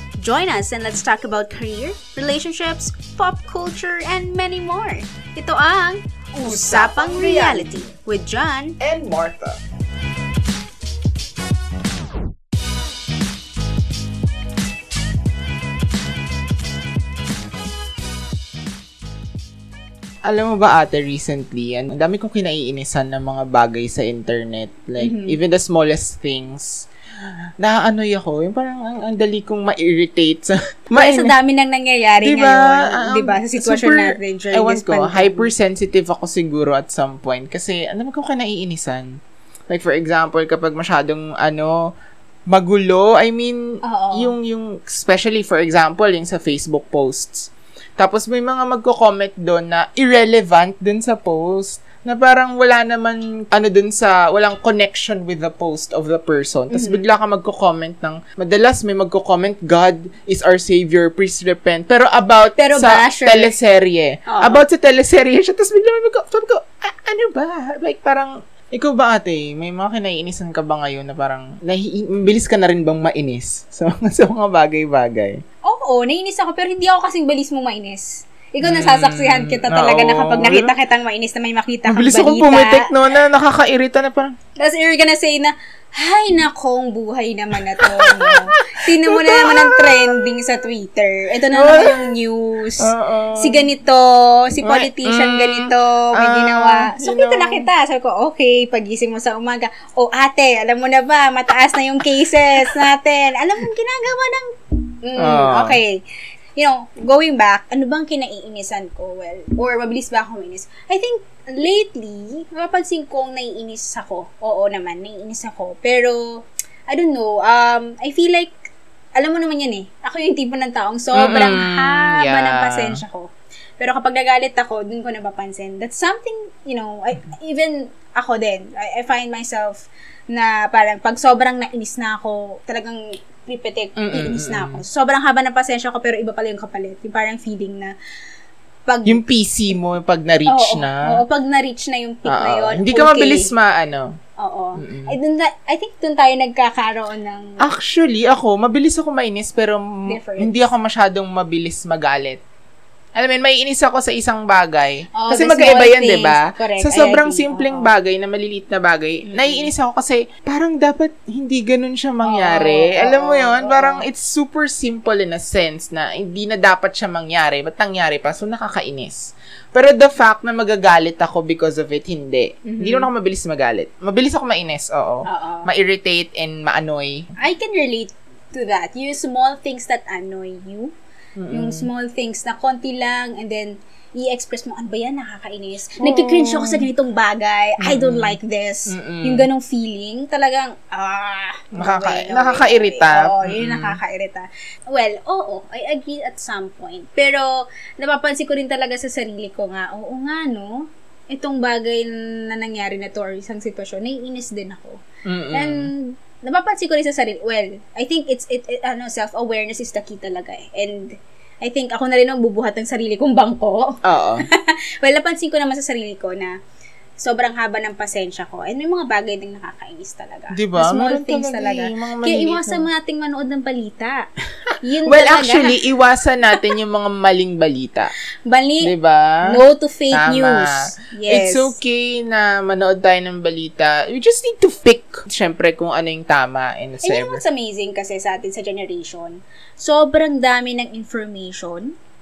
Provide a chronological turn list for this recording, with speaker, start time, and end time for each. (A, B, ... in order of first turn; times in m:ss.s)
0:00.2-0:08.8 A
0:06.4-0:07.9 B
0:08.8-0:09.6 B
0:20.3-0:26.9 B
0:25.0-0:25.4 A
0:27.6-0:31.3 B
0:31.0-0:35.5 A
0:32.2-0:39.2 B
0:39.7-0:41.9 B
0:42.5-1:15.4 B
0:43.8-0:44.4 A
0:56.7-0:57.0 A
1:02.6-1:03.5 A
1:04.3-1:04.6 A
1:15.6-1:22.9 A
1:18.6-1:20.7 B
1:21.9-1:24.4 B
1:24.6-1:46.0 A
1:27.8-1:30.7 B
1:31.5-1:32.1 B
1:32.8-1:33.7 B
1:34.6-1:37.7 B
1:45.2-1:45.8 B
1:46.6-2:17.9 A
2:01.2-2:03.0 B
2:14.0-2:14.8 B
2:18.9-2:19.2 A
2:19.1-2:21.0 B
2:20.5-2:23.5 A
2:22.3-2:24.2 B
2:24.4-2:27.6 A
2:24.8-2:25.1 B
2:27.6-2:32.4 B
2:30.1-2:30.7 A
2:33.2-2:57.3 B
2:35.2-2:37.9 A
2:39.2-2:39.7 A
2:42.2-2:44.0 A
2:52.6-2:53.1 A
2:55.3-2:55.7 A
2:57.4-3:00.9 A
3:01.4-3:01.9 B
3:01.5-3:25.0 A
3:06.0-3:06.9 B
3:07.8-3:08.4 B
3:08.9-3:09.5 B
3:11.8-3:14.0 B
3:25.3-3:25.9 B
3:25.5-3:36.6 A
3:34.0-3:34.5 B
3:37.2-3:44.3 A
3:40.5-3:42.9 B
3:44.7-3:48.1 B
3:44.8-3:45.8 A
3:48.5-3:48.9 A
3:48.8-3:49.6 B
3:49.5-3:51.8 A
3:50.1-3:57.4 B
3:57.0-4:01.9 A